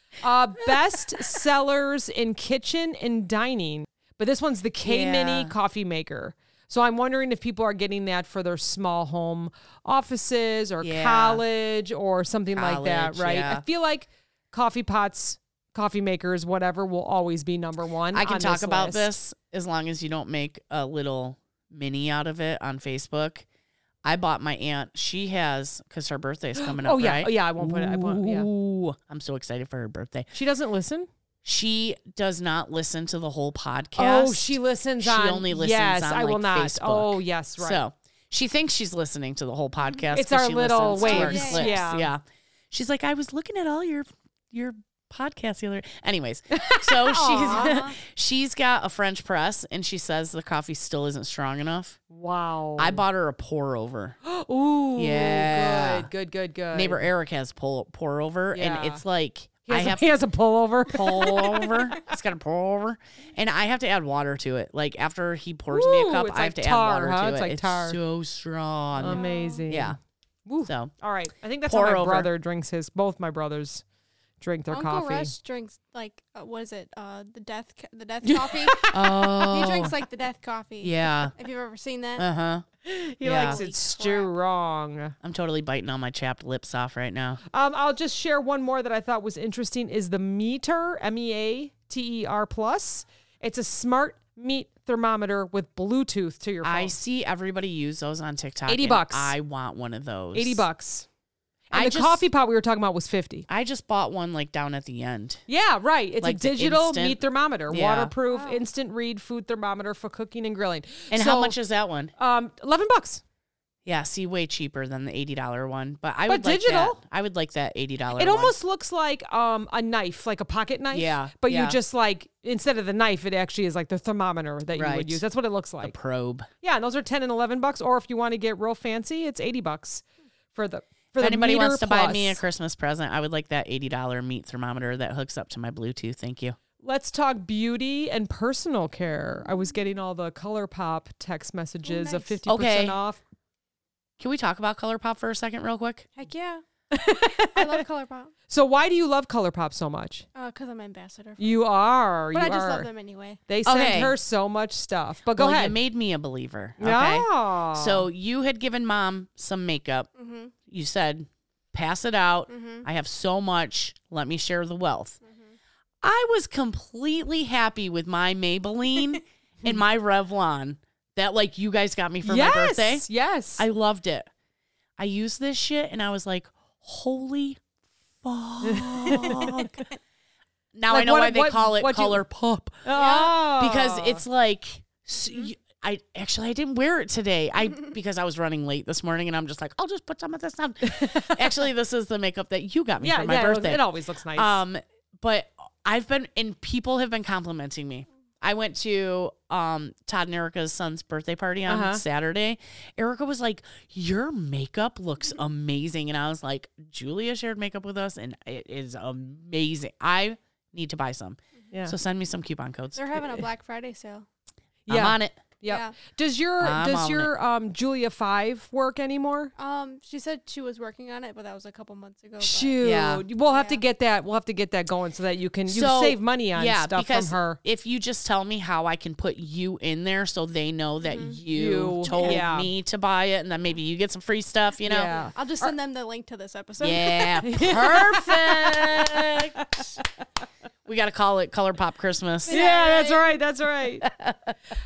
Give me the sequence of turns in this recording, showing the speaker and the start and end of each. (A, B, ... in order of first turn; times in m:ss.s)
0:00.2-0:19.1 A
0:00.6-0:01.4 B
0:04.8-0:05.5 B
0:10.8-0:11.4 B
0:12.5-0:13.6 B
0:18.1-0:23.4 B
0:24.0-0:30.3 B
0:26.6-0:28.5 A
0:30.3-0:31.1 A
0:31.4-0:52.0 B
0:34.0-0:37.8 A
0:40.1-0:42.1 A
0:41.0-0:41.8 C
0:46.5-0:47.8 A
0:47.3-0:47.9 C
0:52.1-0:53.0 A
0:52.8-0:54.2 B
0:54.2-0:57.1 A
0:55.0-0:56.1 B
0:56.7-1:00.1 B
0:58.5-0:59.0 A
0:59.6-1:01.7 A
1:00.8-1:10.0 B
1:05.7-1:08.0 A
1:09.0-1:13.8 A
1:09.0-1:09.6 C
1:10.6-1:10.9 B
1:11.6-1:12.3 B
1:14.4-1:15.3 A
1:14.7-1:22.3 C
1:18.2-1:19.4 A
1:18.9-1:19.9 B
1:20.8-1:21.3 B
1:22.2-1:22.6 B
1:22.8-1:25.1 A
1:23.2-1:23.6 B
1:23.3-1:24.3 C
1:25.2-1:27.4 B
1:27.5-1:37.0 A
1:36.6-1:40.6 B
1:38.7-1:39.3 A
1:40.3-1:41.1 A
1:41.7-1:43.4 A
1:41.7-1:42.2 B
1:43.5-1:45.4 B
1:45.5-1:51.6 A
1:46.2-1:48.1 B
1:48.3-1:48.6 C
1:51.1-1:52.1 B
1:52.2-1:53.2 A
1:53.8-1:58.6 B
1:56.3-1:57.0 A
1:58.2-2:05.9 A
2:00.9-2:01.8 B
2:04.7-2:05.2 B
2:05.8-2:06.5 B
2:06.6-2:12.4 A
2:11.2-2:16.6 B
2:16.8-2:23.2 A
2:21.8-2:22.4 C
2:22.5-2:23.0 B
2:24.2-2:26.1 B
2:26.2-2:26.6 C
2:26.9-2:27.8 A
2:27.5-2:28.3 C
2:28.5-2:30.2 A
2:30.3-2:31.6 C
2:31.4-2:32.9 A
2:32.3-2:33.4 C
2:33.5-2:35.7 A
2:33.6-2:34.1 B
2:35.4-2:40.1 B
2:36.8-2:38.1 A
2:40.2-2:40.5 C
2:40.7-2:45.2 B
2:42.5-2:42.8 C
2:45.2-2:45.5 C
2:46.0-2:53.0 B
2:52.2-2:53.7 A
2:53.6-2:54.3 B
2:55.0-2:57.6 B
2:58.2-2:59.8 B
2:58.6-2:59.6 A
3:00.7-3:33.4 B
3:00.9-3:02.2 A
3:02.8-3:04.2 A
3:02.9-3:03.3 C
3:10.8-3:11.6 A
3:13.0-3:14.6 A
3:21.7-3:22.0 A
3:32.9-3:34.2 C
3:34.9-3:39.5 A
3:34.9-3:35.4 B
3:35.7-3:35.9 C
3:36.6-3:37.3 B
3:39.6-3:42.8 C
3:42.4-3:47.6 A
3:42.8-3:43.2 B
3:43.5-3:43.8 C
3:45.7-3:55.1 B
3:51.0-3:51.4 C
3:51.5-3:52.7 A
3:52.1-3:52.4 C
3:54.8-3:55.7 A
3:55.2-3:57.7 C
3:56.8-3:59.5 B
3:57.4-3:59.9 A
4:00.8-4:02.6 B
4:02.5-4:03.4 C
4:02.5-4:04.0 A
4:04.0-4:04.5 B